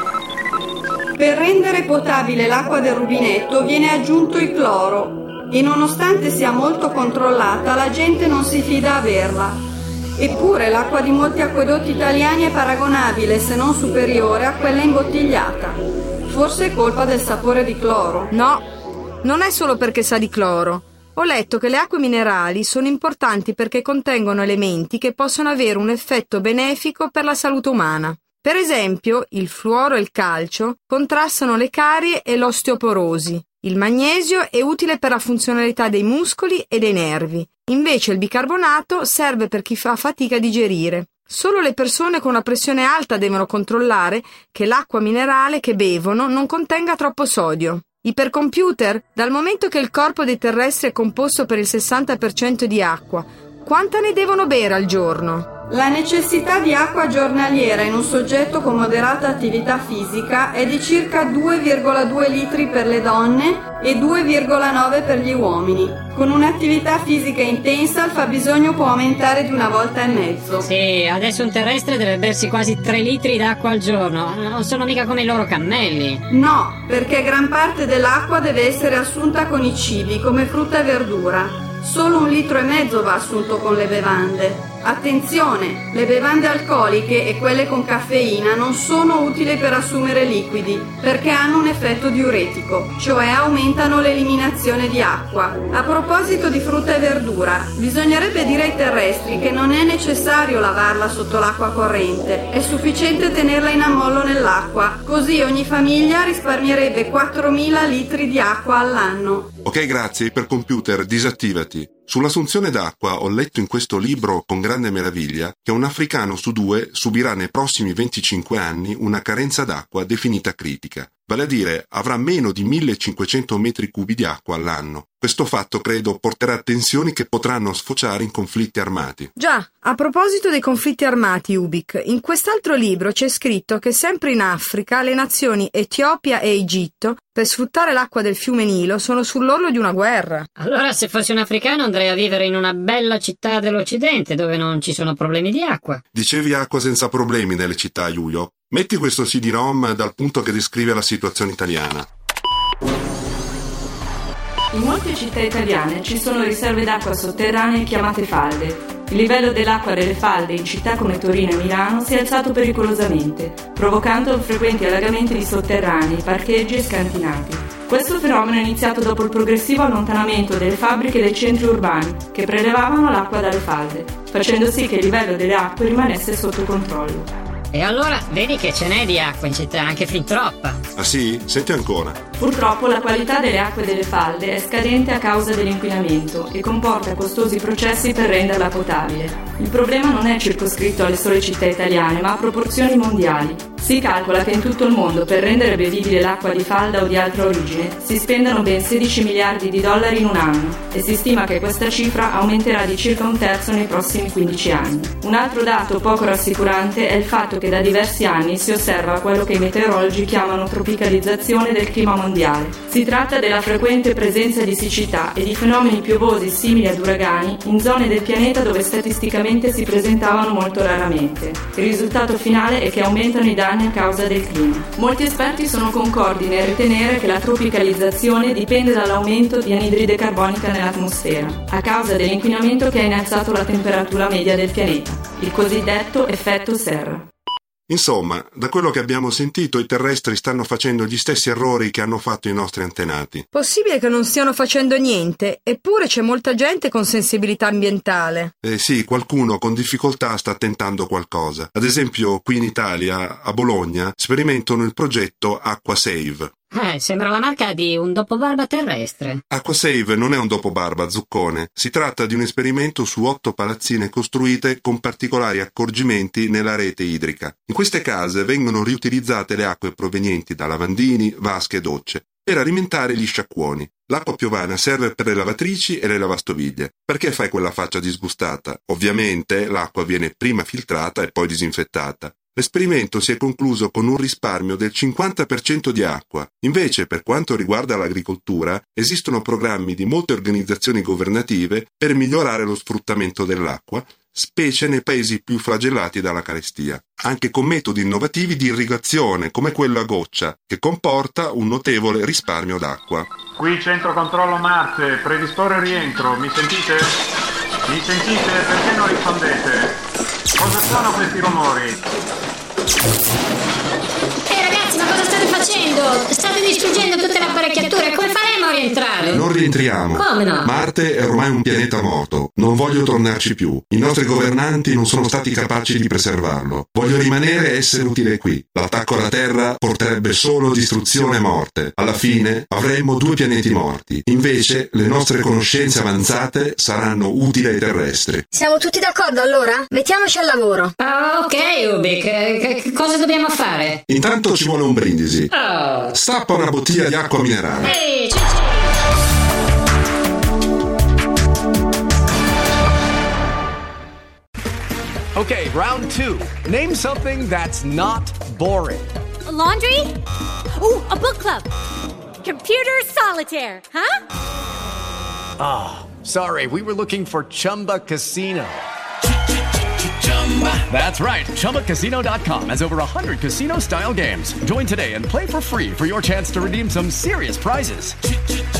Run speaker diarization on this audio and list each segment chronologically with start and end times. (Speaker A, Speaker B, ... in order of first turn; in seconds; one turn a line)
Speaker A: 1.2-9.6
Speaker A: 10.2-18.3
Speaker B: 18.3-18.6
Speaker B: 19.2-55.5
Speaker A: 55.7-70.7
Speaker C: 70.6-76.2
Speaker A: 76.3-109.5
Speaker D: 109.6-129.3
Speaker B: 129.3-140.5
Speaker C: 140.6-146.0
Speaker D: 146.1-152.1
Speaker E: 154.7-177.3
Speaker C: 177.7-180.8
Speaker D: 180.9-182.2
Speaker E: 182.4-237.2
Speaker D: 237.9-243.4
Speaker B: 243.5-248.5
Speaker D: 248.6-256.5
Speaker C: 256.7-259.4
Speaker D: 259.5-303.3
Speaker F: 303.6-307.0
Speaker F: 307.9-309.9
Speaker F: 310.6-311.9
Speaker C: 314.5-319.4
Speaker D: 319.3-338.4
Speaker C: 320.1-320.7
Speaker G: 338.5-340.9
Speaker C: 341.0-344.0
Speaker D: 344.1-345.5
Speaker C: 345.5-346.1
Speaker D: 346.1-348.0
Speaker C: 347.8-348.8
Speaker H: 355.3-359.1
Speaker I: 359.4-360.1
Speaker I: 360.7-361.7
Speaker I: 362.4-364.2
Speaker H: 365.6-368.8
Speaker H: 370.2-378.1